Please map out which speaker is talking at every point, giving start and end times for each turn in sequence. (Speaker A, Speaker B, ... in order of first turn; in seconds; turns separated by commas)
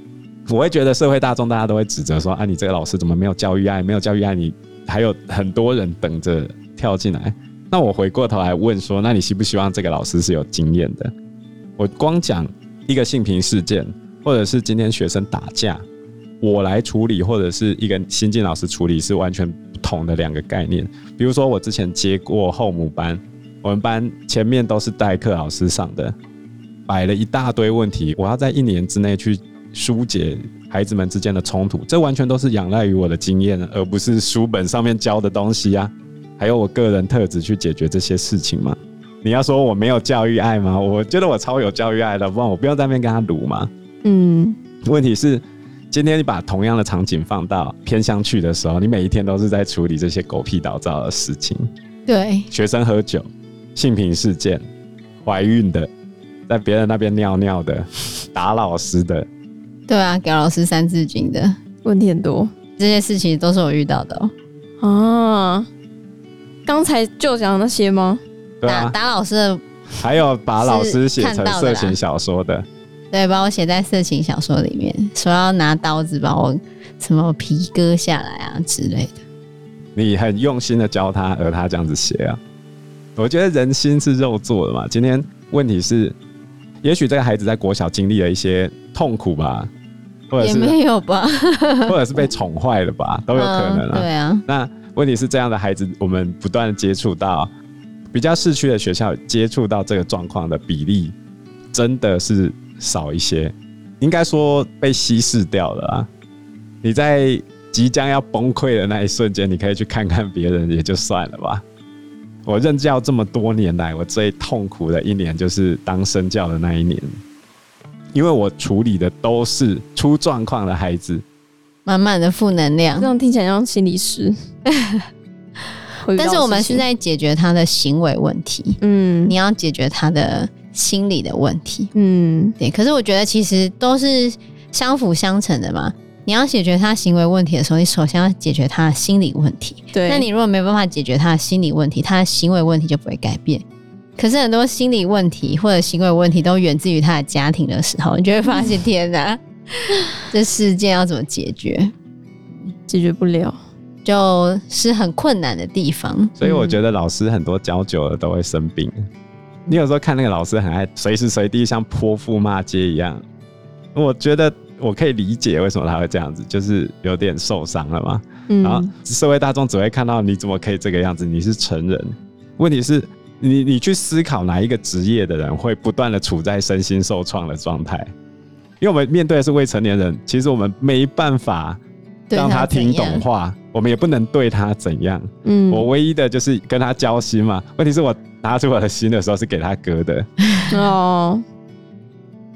Speaker A: 0.5-11.1, Speaker A: 11.8-15.8, Speaker A: 16.4-26.1, Speaker A: 26.9-43.7, Speaker B: 44.0-44.6, Speaker A: 44.8-51.7, Speaker C: 52.1-52.5, Speaker A: 52.5-54.6, Speaker A: 55.2-55.9, Speaker A: 56.5-59.3, Speaker C: 59.9-61.5, Speaker B: 61.8-62.5, Speaker C: 62.8-64.3, Speaker B: 64.8-65.7, Speaker B: 66.7-68.2, Speaker A: 68.6-68.9, Speaker C: 68.7-69.6, Speaker A: 70.0-72.7, Speaker C: 70.6-72.0, Speaker C: 73.1-79.2, Speaker A: 79.9-82.4, Speaker A: 83.2-86.2, Speaker A: 86.8-89.7, Speaker A: 90.3-90.8, Speaker C: 90.4-92.0, Speaker A: 91.9-97.5, Speaker C: 93.3-94.4, Speaker A: 98.1-101.2, Speaker A: 101.7-106.1, Speaker A: 106.8-111.6, Speaker A: 112.5-117.2, Speaker A: 118.1-121.2, Speaker C: 121.8-123.1, Speaker B: 123.0-124.3, Speaker C: 124.7-125.0, Speaker B: 126.0-126.8, Speaker C: 126.2-131.9, Speaker B: 128.8-129.3, Speaker B: 131.9-132.6, Speaker C: 132.6-143.6, Speaker B: 139.9-140.2, Speaker C: 144.2-151.9, Speaker B: 152.9-153.6, Speaker C: 154.0-156.3, Speaker A: 156.4-158.9, Speaker B: 156.4-156.8, Speaker A: 159.7-163.2, Speaker A: 163.9-178.1, Speaker B: 168.5-168.9, Speaker A: 178.8-181.8, Speaker C: 182.3-183.2, Speaker A: 182.3-190.3, Speaker B: 185.4-185.8, Speaker B: 190.7-191.4